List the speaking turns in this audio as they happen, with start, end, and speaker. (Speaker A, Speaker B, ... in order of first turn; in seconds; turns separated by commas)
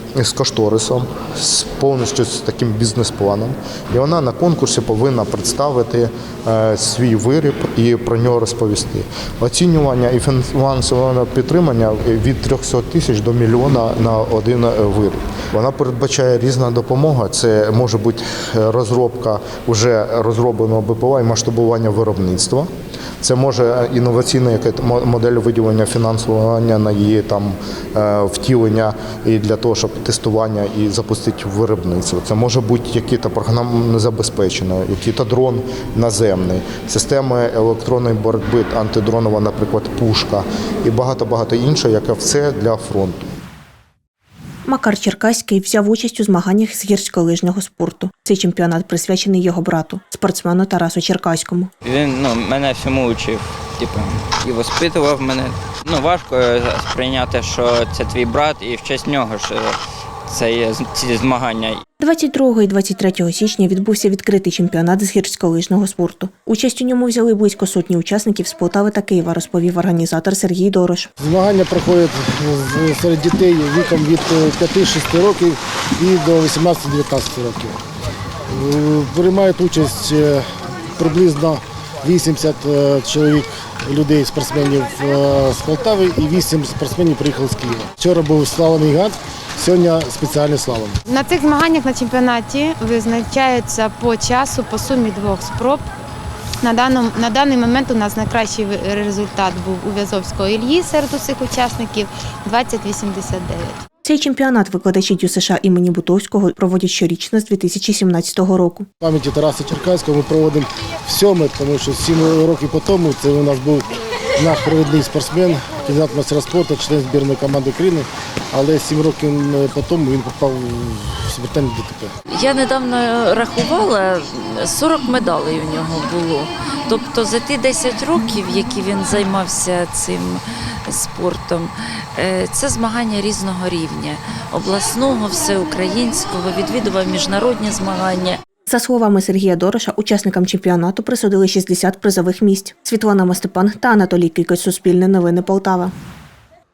Speaker A: 0.2-22.7, Speaker A: 23.2-43.2, Speaker B: 44.6-51.7, Speaker C: 51.8-59.8, Speaker C: 60.3-61.8, Speaker B: 62.0-71.1, Speaker D: 71.2-77.8, Speaker D: 78.5-80.4, Speaker D: 81.0-91.0, Speaker E: 91.1-95.9, Speaker E: 96.6-103.8, Speaker B: 104.0-108.9, Speaker D: 109.0-122.1, Speaker F: 122.3-138.4, Speaker B: 138.7-145.9